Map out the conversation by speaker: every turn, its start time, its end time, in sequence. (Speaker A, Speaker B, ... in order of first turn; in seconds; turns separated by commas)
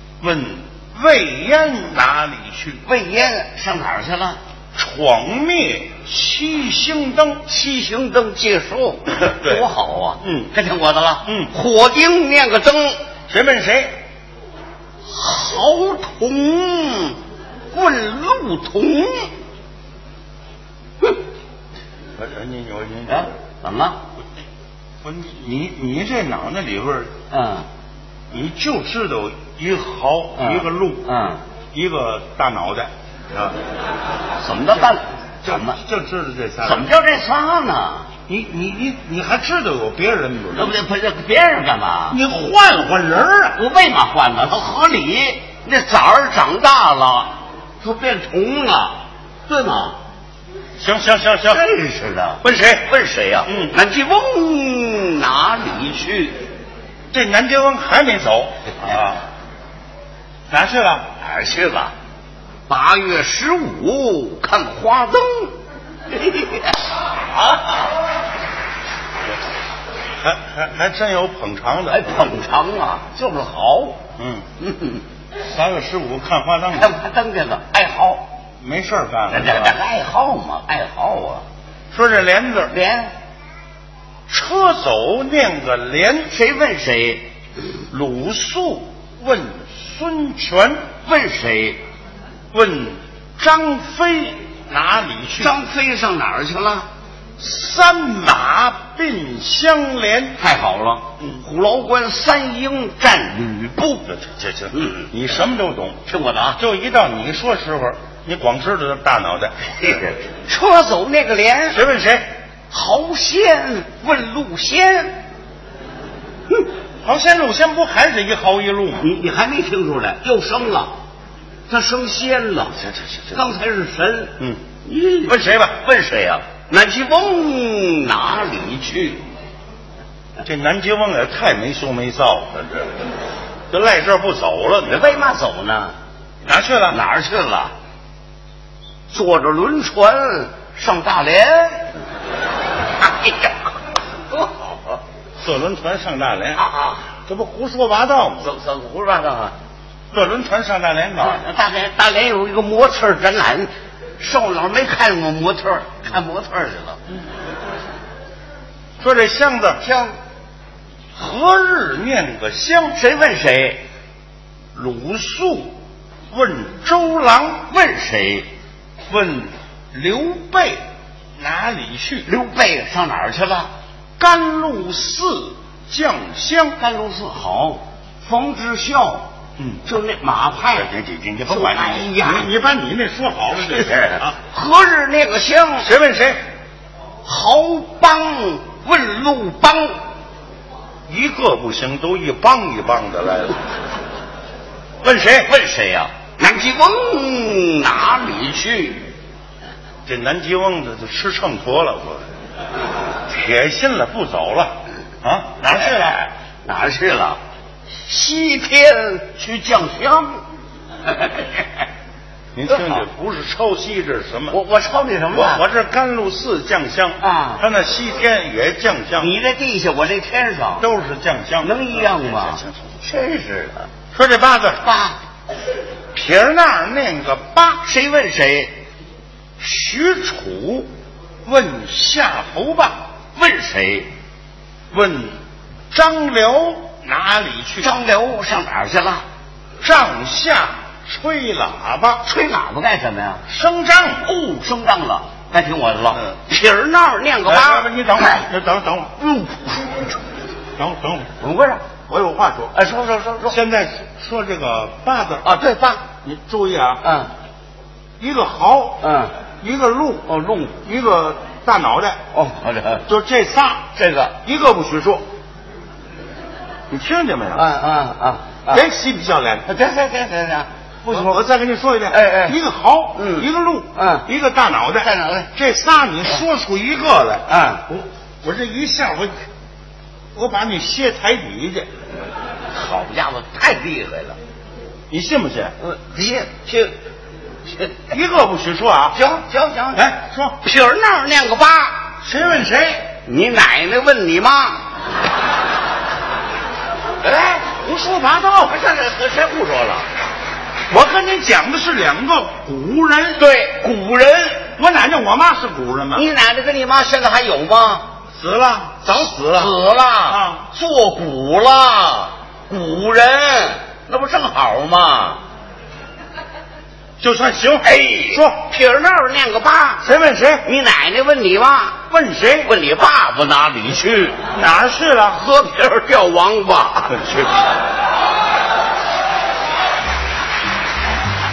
Speaker A: 0.2-2.8, Speaker B: 2.9-4.4, Speaker A: 4.8-7.5, Speaker B: 7.5-13.0, Speaker A: 9.3-9.7, Speaker A: 10.2-10.5, Speaker A: 11.2-11.5, Speaker A: 13.3-13.9, Speaker B: 15.1-17.2, Speaker B: 17.7-19.3, Speaker A: 22.2-23.3, Speaker B: 23.1-24.0, Speaker A: 25.0-27.2, Speaker B: 27.3-27.7, Speaker A: 28.3-31.1, Speaker B: 30.4-31.4, Speaker A: 31.7-33.6, Speaker B: 34.4-35.8, Speaker A: 35.4-36.9, Speaker B: 36.6-38.1, Speaker A: 38.3-40.8, Speaker B: 40.5-42.2, Speaker A: 42.1-43.6, Speaker B: 43.6-50.0, Speaker A: 50.8-51.6, Speaker B: 51.5-56.5, Speaker A: 52.4-52.9, Speaker A: 53.5-53.8, Speaker A: 57.1-59.3, Speaker A: 60.5-61.1, Speaker B: 61.2-61.9, Speaker B: 62.7-65.5, Speaker B: 66.1-66.8, Speaker B: 67.4-67.8, Speaker A: 70.2-72.3, Speaker B: 71.9-74.0, Speaker A: 74.2-74.5, Speaker B: 74.6-75.0, Speaker A: 75.5-76.9, Speaker B: 76.7-78.3, Speaker A: 78.6-79.8, Speaker B: 79.3-81.5, Speaker A: 81.9-82.7, Speaker B: 82.7-83.1, Speaker A: 84.3-86.3, Speaker B: 86.3-87.3, Speaker A: 87.9-90.9, Speaker B: 91.0-91.8, Speaker A: 92.5-95.6, Speaker B: 95.4-96.9, Speaker A: 97.4-100.4, Speaker B: 100.4-104.1, Speaker A: 104.1-106.0, Speaker B: 104.7-105.1, Speaker B: 106.1-106.6, Speaker A: 106.6-110.0, Speaker B: 109.8-111.8, Speaker A: 111.7-112.3, Speaker B: 112.7-115.2, Speaker A: 117.0-119.1, Speaker B: 119.0-120.9, Speaker B: 121.7-129.2, Speaker A: 122.8-123.4, Speaker A: 125.3-125.8, Speaker A: 130.4-132.9, Speaker A: 133.7-135.3, Speaker B: 134.9-135.9, Speaker A: 136.5-137.0, Speaker B: 136.9-137.7, Speaker B: 139.1-141.9, Speaker B: 143.0-143.7, Speaker B: 144.3-145.0, Speaker A: 145.4-146.6, Speaker B: 146.6-147.0, Speaker A: 147.3-148.5, Speaker B: 148.4-149.6, Speaker A: 150.1-151.4, Speaker B: 151.2-157.0, Speaker A: 159.0-159.8, Speaker B: 159.8-160.2, Speaker A: 161.2-163.0, Speaker B: 162.9-163.8, Speaker A: 164.7-165.8, Speaker A: 166.3-167.7, Speaker B: 167.7-168.5, Speaker A: 169.1-170.8, Speaker A: 171.4-172.3, Speaker B: 172.3-173.7, Speaker A: 174.2-176.8, Speaker B: 176.8-179.3, Speaker A: 179.6-179.8, Speaker B: 179.8-180.9, Speaker A: 180.7-184.4, Speaker B: 181.5-182.5, Speaker B: 183.7-185.9, Speaker A: 185.8-186.4, Speaker B: 187.2-190.0, Speaker A: 191.1-193.6, Speaker A: 195.0-195.5, Speaker B: 195.4-199.1, Speaker A: 200.1-202.2, Speaker A: 203.3-206.2, Speaker B: 205.8-207.4, Speaker B: 208.1-210.4, Speaker B: 211.1-211.7, Speaker A: 212.6-214.6, Speaker B: 214.5-215.6, Speaker A: 215.3-219.3, Speaker B: 217.2-217.6, Speaker B: 219.2-220.8, Speaker A: 220.8-222.9, Speaker B: 221.6-223.9, Speaker A: 224.1-224.8, Speaker B: 224.8-225.2, Speaker A: 226.1-227.8, Speaker B: 227.8-228.7, Speaker A: 229.6-230.9, Speaker A: 231.4-233.0, Speaker B: 233.4-234.1, Speaker A: 234.9-235.4, Speaker A: 235.9-237.9, Speaker B: 237.8-239.2, Speaker A: 239.8-242.2, Speaker B: 242.2-243.4, Speaker A: 243.5-244.3, Speaker B: 244.2-248.4, Speaker A: 247.4-249.2, Speaker B: 249.2-250.2, Speaker A: 250.8-251.3, Speaker B: 251.4-251.8, Speaker A: 252.1-252.8, Speaker B: 252.7-253.6, Speaker A: 253.5-257.0, Speaker B: 255.4-256.0, Speaker B: 257.0-257.3, Speaker A: 258.2-259.0, Speaker B: 259.0-259.3, Speaker A: 259.6-260.3, Speaker B: 260.3-260.8, Speaker A: 260.8-262.2, Speaker B: 262.3-263.1, Speaker A: 263.1-263.9, Speaker B: 264.0-264.4, Speaker A: 264.4-265.2, Speaker A: 266.9-267.7, Speaker B: 267.5-268.9, Speaker A: 268.7-269.7, Speaker B: 269.7-271.4, Speaker A: 271.1-279.3, Speaker B: 272.1-272.6, Speaker B: 273.2-274.3, Speaker B: 275.0-275.5, Speaker B: 277.5-277.8, Speaker A: 280.3-281.9, Speaker B: 282.7-284.4, Speaker A: 285.1-285.8, Speaker B: 285.8-287.0, Speaker B: 287.7-288.1, Speaker A: 288.1-289.2, Speaker B: 289.1-290.1, Speaker A: 289.9-290.6, Speaker B: 290.6-292.2, Speaker A: 292.2-293.1, Speaker B: 293.2-294.8, Speaker A: 297.2-298.8, Speaker B: 298.6-300.1, Speaker A: 300.9-303.4, Speaker B: 303.4-304.6, Speaker A: 304.7-306.3, Speaker B: 306.1-308.1, Speaker A: 308.4-309.7, Speaker B: 309.4-315.4, Speaker A: 310.3-310.7, Speaker A: 317.2-318.6, Speaker B: 317.8-320.1, Speaker A: 320.0-320.7, Speaker B: 320.6-322.0, Speaker A: 322.1-322.7, Speaker B: 322.6-324.4, Speaker A: 324.5-325.4, Speaker B: 325.3-327.5, Speaker A: 327.1-327.5